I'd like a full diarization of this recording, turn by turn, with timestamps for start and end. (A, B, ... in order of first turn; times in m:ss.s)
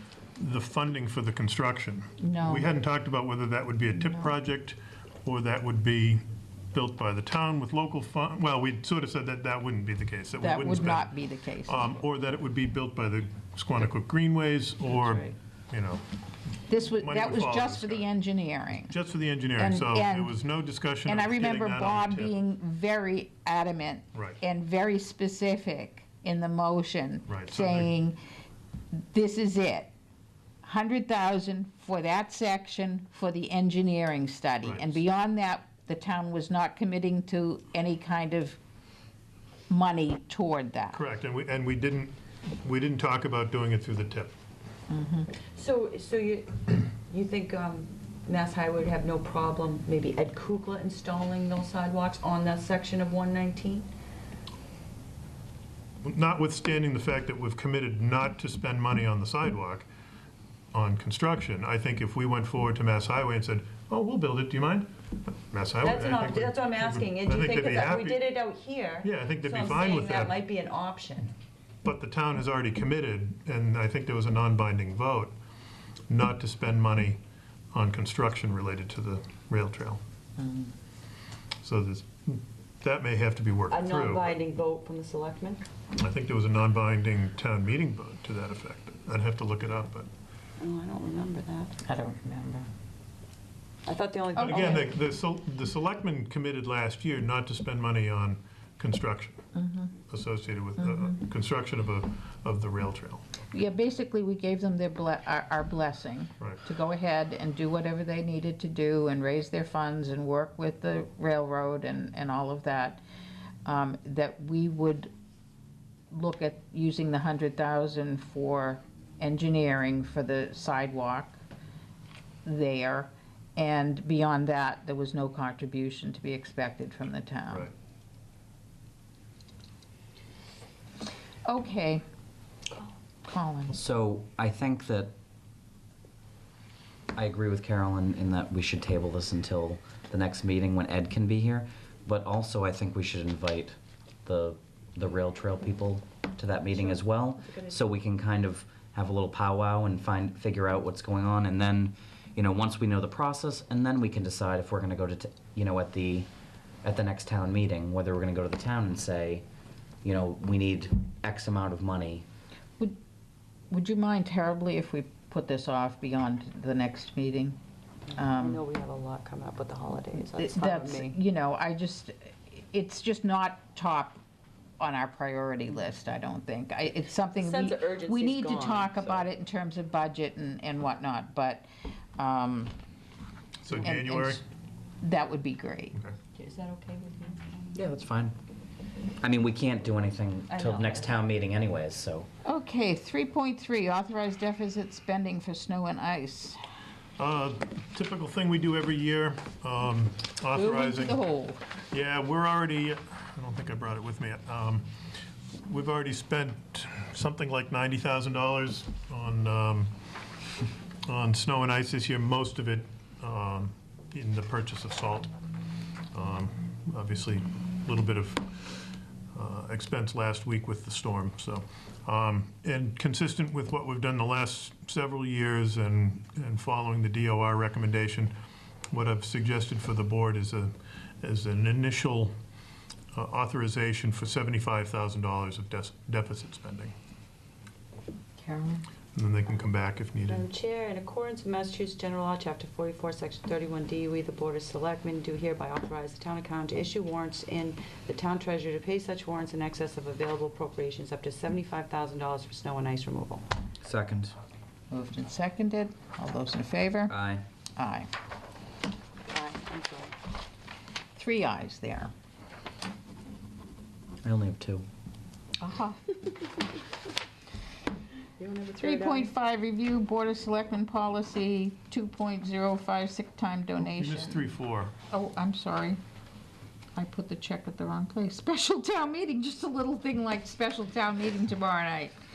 0:00.4-0:11.1 A
0:02.2-0:02.7 B
0:10.4-0:11.9 B
0:11.7-0:16.0 A
0:15.0-0:15.3 C
0:16.7-0:19.0 B
0:17.0-0:18.0 A
0:18.9-0:22.3 A
0:19.6-0:20.4 B
0:21.0-0:28.2 B
0:27.3-0:27.9 A
0:28.9-0:29.9 B
0:30.6-0:38.6 B
0:39.7-0:41.0 B
0:40.9-0:44.3 A
0:44.9-0:45.3 B
0:45.5-0:53.9 D
0:56.0-0:59.9 A
1:00.7-1:08.2 A
1:05.8-1:11.3 D
1:09.0-1:10.4 A
1:11.8-1:15.3 A
1:16.1-1:17.2 A
1:17.7-1:20.0 A
1:20.4-1:20.7 B
1:21.6-1:24.3 A
1:23.7-1:25.6 D
1:25.9-1:30.1 A
1:30.6-1:31.8 D
1:31.8-1:32.7 B
1:33.8-1:34.9 D
1:34.4-1:34.8 B
1:34.4-1:39.4 A
1:39.5-1:39.9 B
1:40.1-1:43.2 A
1:40.8-1:41.1 B
1:43.5-1:53.0 B
1:53.6-1:55.1 B
1:56.1-2:01.4 B
2:02.4-2:07.7 B
2:11.4-2:12.0 B
2:13.3-2:13.8 B
2:13.7-2:15.1 C
2:17.1-2:36.3 C
2:26.7-2:27.8 D
2:36.8-2:39.4 C
2:40.0-2:42.2 C
2:43.7-2:47.6 B
2:48.1-2:51.1 D
2:48.1-2:48.6 B
2:50.3-2:54.2 B
2:54.8-3:02.7 B
2:57.4-2:59.2 D
3:03.6-3:04.4 A
3:03.8-3:04.4 B
3:05.0-3:05.9 B
3:06.4-3:07.8 D
3:07.7-3:08.4 C
3:09.2-3:12.3 C
3:10.5-3:11.2 D
3:12.4-3:16.6 B
3:17.2-3:21.2 A
3:20.5-3:21.6 B
3:21.9-3:24.9 A
3:25.6-3:29.9 A
3:31.0-3:35.3 A
3:36.1-3:38.7 A
3:39.3-3:48.3 A
3:48.9-3:52.3 A
3:53.1-3:56.9 A
3:58.4-3:58.8 B
3:59.1-4:00.4 A
4:00.3-4:13.4 D
4:13.8-4:14.3 C
4:14.9-4:17.1 B
4:17.1-4:17.4 C
4:17.8-4:18.1 B
4:19.3-4:20.1 D
4:21.1-4:22.1 B
4:24.2-4:24.8 C
4:25.6-4:26.2 B
4:28.4-4:29.3 D
4:28.8-4:34.5 B
4:33.8-4:34.9 A
4:35.1-4:36.0 B
4:36.9-4:42.1 B